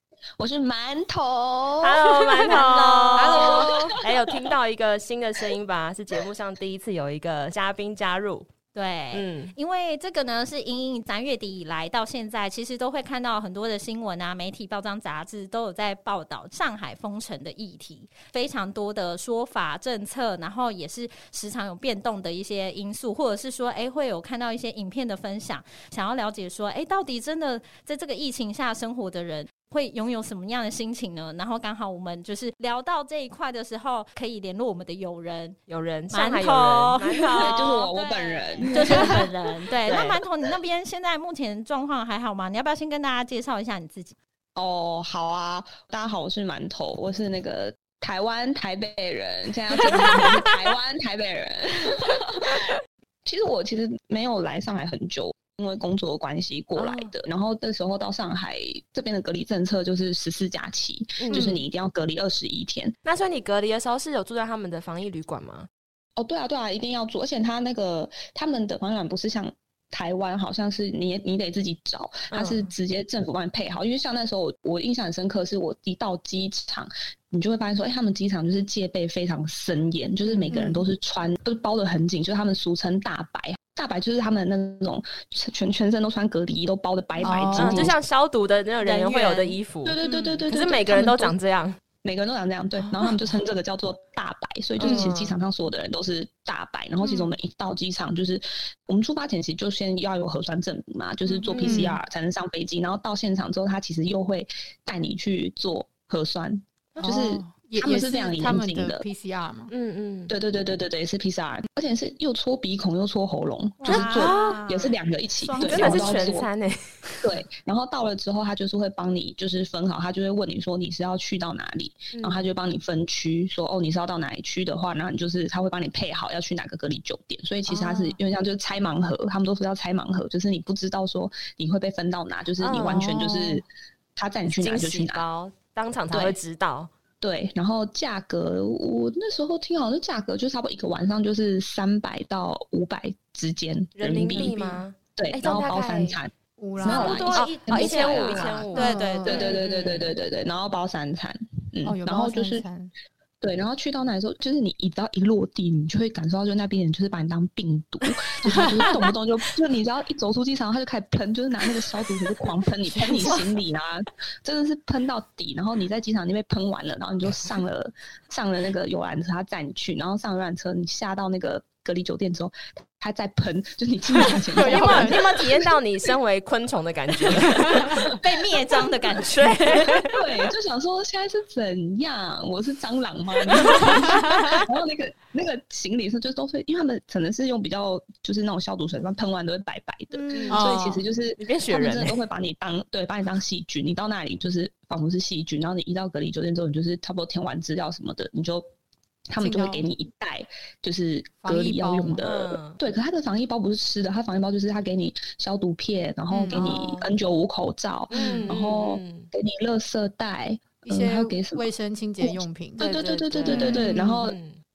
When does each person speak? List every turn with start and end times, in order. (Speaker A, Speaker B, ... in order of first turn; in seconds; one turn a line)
Speaker A: 0.4-4.2
Speaker B: 1.8-8.5
Speaker C: 2.5-4.0
Speaker C: 8.7-35.6
Speaker B: 9.1-9.5
Speaker B: 35.7-37.6
Speaker C: 36.1-44.1
Speaker A: 37.3-39.2
Speaker B: 38.8-39.2
Speaker B: 39.8-40.2
Speaker A: 44.5-52.7
Speaker A: 53.2-62.9
Speaker B: 56.8-57.1
Speaker B: 61.2-61.6
Speaker D: 61.3-61.6
Speaker B: 63.0-65.7
Speaker A: 66.2-88.0
Speaker B: 72.3-72.7
Speaker D: 87.2-88.0
Speaker B: 87.5-91.8
Speaker C: 88.8-90.3
Speaker A: 89.8-91.3
Speaker A: 92.0-109.0
Speaker B: 92.8-93.2
Speaker B: 94.8-95.4
Speaker B: 101.4-101.9
Speaker D: 101.6-102.0
Speaker D: 107.0-109.7
Speaker B: 109.7-110.3
Speaker A: 110.3-116.5
Speaker C: 113.8-116.3
Speaker D: 113.8-114.6
Speaker B: 115.6-117.3
Speaker A: 117.2-135.2
Speaker B: 122.1-122.5
Speaker D: 127.7-128.2
Speaker B: 132.6-133.1
Speaker D: 132.7-133.6
Speaker B: 134.5-136.9
Speaker A: 136.1-136.4
Speaker A: 137.2-148.7
Speaker B: 144.0-146.2
Speaker D: 144.3-144.6
Speaker D: 146.6-147.3
Speaker C: 146.8-149.6
Speaker B: 146.8-150.1
Speaker D: 148.7-149.5
Speaker A: 149.2-152.7
Speaker D: 151.8-152.9
Speaker A: 153.4-175.5
Speaker D: 158.4-158.9
Speaker D: 162.9-163.4
Speaker D: 174.2-175.4
Speaker B: 174.5-178.2
Speaker C: 177.9-179.7
Speaker B: 179.2-180.2
Speaker A: 179.8-198.6
Speaker C: 190.1-190.7
Speaker B: 190.3-190.8
Speaker D: 190.5-191.0
Speaker B: 191.4-192.2
Speaker A: 199.3-211.7
Speaker D: 199.4-199.8
Speaker D: 201.4-202.2
Speaker B: 202.2-202.8
Speaker D: 206.3-206.7
Speaker B: 206.5-207.1
Speaker B: 208.1-209.3
Speaker D: 208.1-208.5
Speaker D: 210.8-212.9
Speaker A: 212.2-214.4
Speaker B: 212.8-214.6
Speaker D: 213.5-213.9